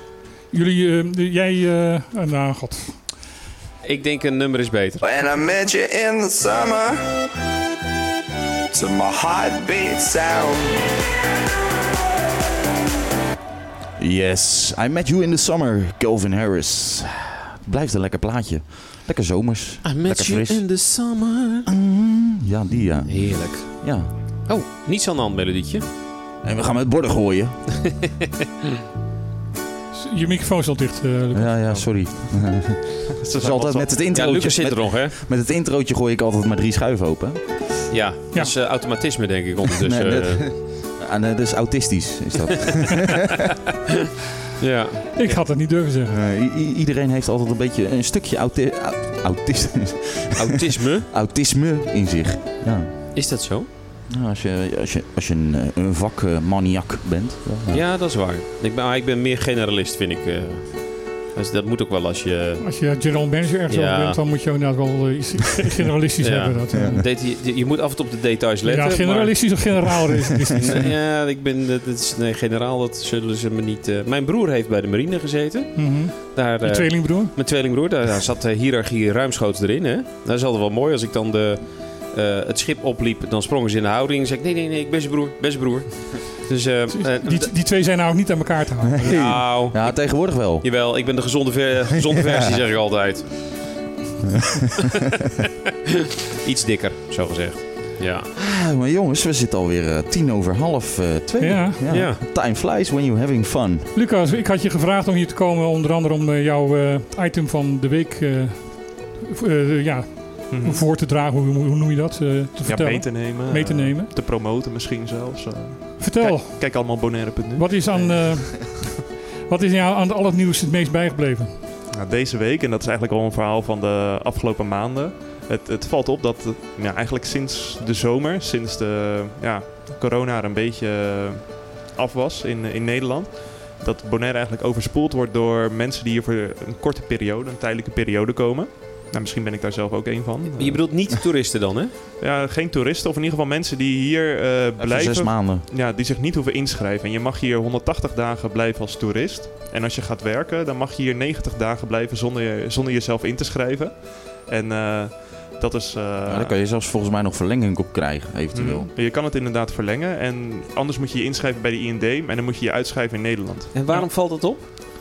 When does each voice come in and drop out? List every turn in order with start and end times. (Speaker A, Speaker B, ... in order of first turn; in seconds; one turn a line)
Speaker A: 0.5-3.1
Speaker B: 3.8-5.0
Speaker C: 5.0-7.2
Speaker C: 8.7-10.8
Speaker D: 14.0-20.8
Speaker B: 19.8-21.7
Speaker D: 21.7-24.1
Speaker B: 23.1-25.9
Speaker D: 26.4-28.0
Speaker A: 29.9-31.9
Speaker D: 31.3-37.9
Speaker E: 33.2-34.1
Speaker B: 34.1-35.1
Speaker B: 37.9-40.5
Speaker D: 39.8-43.1
Speaker B: 44.6-45.4
Speaker A: 45.1-46.2
Speaker D: 46.1-53.5
Speaker B: 50.4-51.1
Speaker B: 53.1-53.7
Speaker D: 54.1-57.9
Speaker B: 57.7-62.8
Speaker A: 62.6-67.0
Speaker B: 63.7-64.2
Speaker B: 66.2-87.5
Speaker A: 68.6-70.8
Speaker A: 75.8-77.3
Speaker A: 86.9-89.1
Speaker D: 88.9-91.0
Speaker B: 89.0-93.6
Speaker B: 96.4-98.3
Speaker D: 98.3-103.9
Speaker A: 101.4-102.0
Speaker B: 101.9-102.2
Speaker A: 103.9-114.1
Speaker E: 110.5-110.9
Speaker E: 112.6-118.5
Speaker A: 116.0-121.5
Speaker E: 121.9-141.0
Speaker B: 140.6-141.9
Speaker E: 142.2-156.6
Speaker D: 144.8-145.7
Speaker D: 156.3-158.9
Speaker E: 158.5-164.1
Speaker B: 163.7-164.7